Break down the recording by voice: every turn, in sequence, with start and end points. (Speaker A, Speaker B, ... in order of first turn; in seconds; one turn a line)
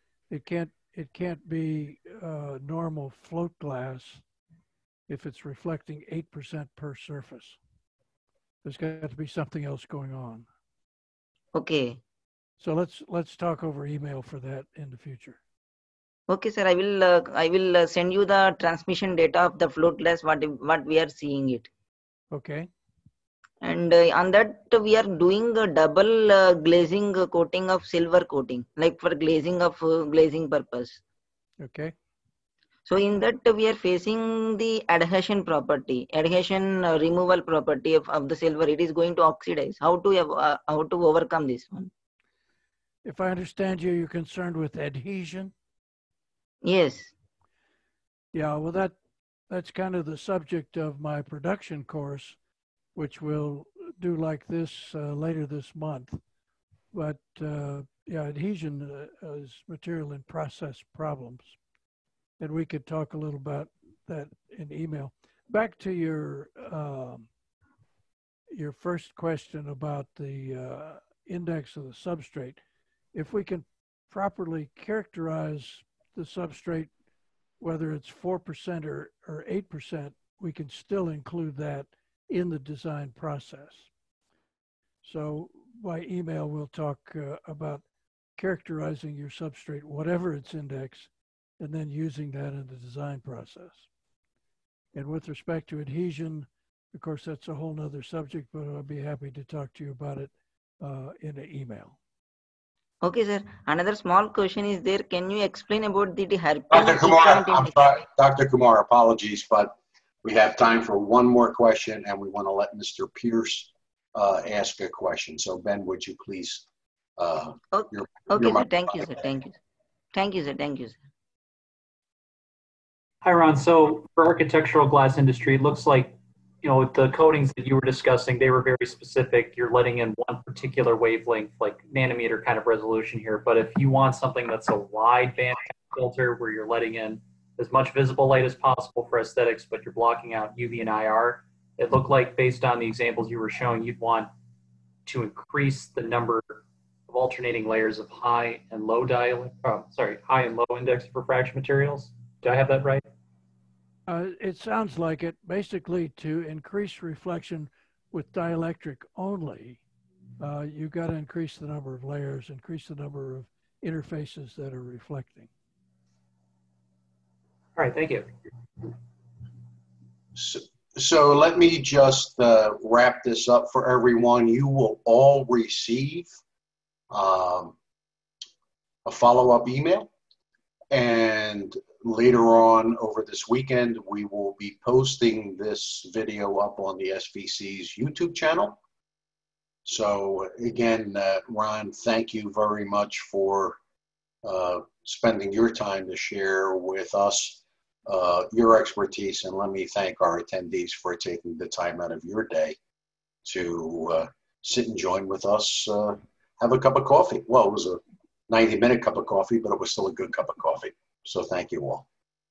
Speaker A: 0.3-4.2
Speaker A: 5.1-7.6
Speaker A: 8.6-10.5
Speaker B: 11.5-12.0
Speaker A: 12.6-15.4
Speaker B: 16.3-21.7
Speaker A: 22.3-22.7
Speaker B: 23.6-31.0
Speaker A: 31.6-31.9
Speaker B: 32.9-41.9
Speaker A: 43.0-45.5
Speaker B: 46.6-47.1
Speaker A: 48.3-49.0
Speaker A: 49.5-52.4
Speaker A: 52.9-56.2
Speaker A: 56.9-61.6
Speaker A: 62.4-67.3
Speaker A: 68.5-72.6
Speaker A: 73.1-76.9
Speaker A: 77.6-83.9
Speaker A: 85.0-87.8
Speaker A: 88.4-93.9
Speaker A: 94.9-102.0
Speaker B: 103.0-107.9
Speaker C: 106.7-116.6
Speaker C: 117.2-119.1
Speaker B: 117.7-119.6
Speaker B: 120.1-121.0
Speaker D: 123.2-144.3
Speaker D: 145.1-153.0
Speaker A: 154.1-159.8
Speaker A: 160.4-165.5
Speaker D: 167.8-168.3
Speaker C: 170.3-176.3
Speaker C: 177.1-177.8
Speaker C: 179.0-180.1
Speaker C: 180.9-188.8
Speaker C: 189.8-193.8
Speaker C: 194.4-202.8
Speaker C: 203.4-212.1